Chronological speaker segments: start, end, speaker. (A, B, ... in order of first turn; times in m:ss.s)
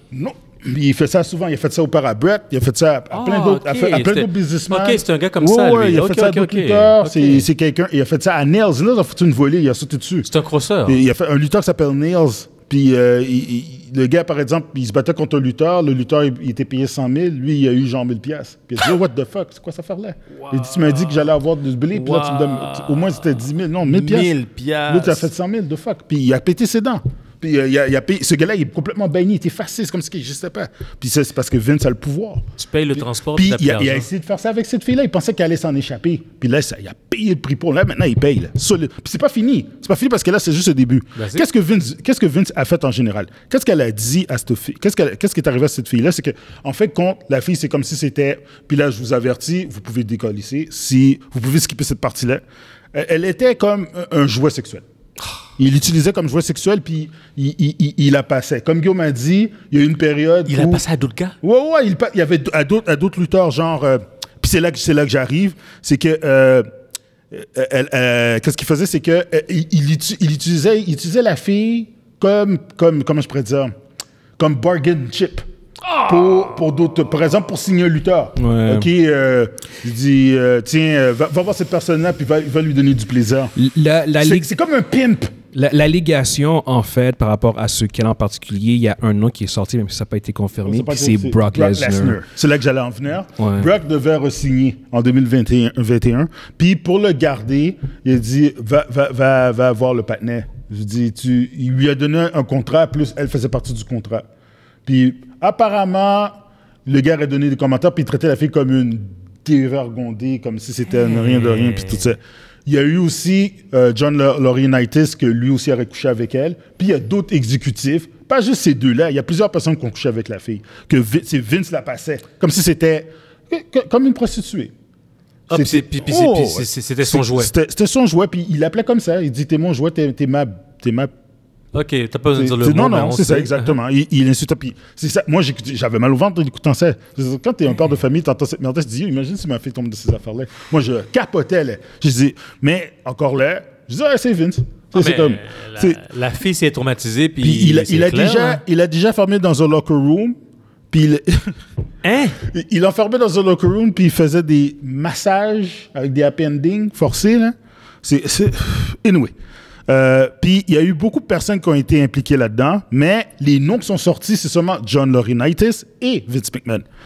0:00.1-0:10.3 A
0:03.1-0:07.5 B
0:10.3-0:11.0 B
0:10.9-0:24.3 A
0:20.4-0:21.3 B
0:21.9-0:25.3 B
0:24.9-0:32.4 A
0:32.6-0:34.1 B
0:33.0-0:54.8 A
0:41.2-0:41.4 B
0:55.6-1:00.8 A
1:00.5-1:01.4 B
1:01.4-1:06.7 A
1:07.3-1:13.7 A
1:14.4-1:15.4 A
1:15.9-1:16.4 B
1:16.0-1:23.5 A
1:18.4-1:18.9 C
1:23.6-1:24.5 C
1:24.2-1:25.3 A
1:25.5-1:32.2 C
1:30.6-1:44.3 A
1:33.4-1:33.7 C
1:44.8-2:04.7 A
1:51.0-1:52.1 B
2:05.5-2:07.5 B
2:05.5-2:11.1 A
2:11.7-2:13.7 B
2:12.4-2:26.0 A
2:24.9-2:28.6 B
2:27.4-2:30.4 A
2:30.9-2:31.6 A
2:32.0-2:32.4 B
2:32.4-2:39.3 A
2:39.9-2:46.8 A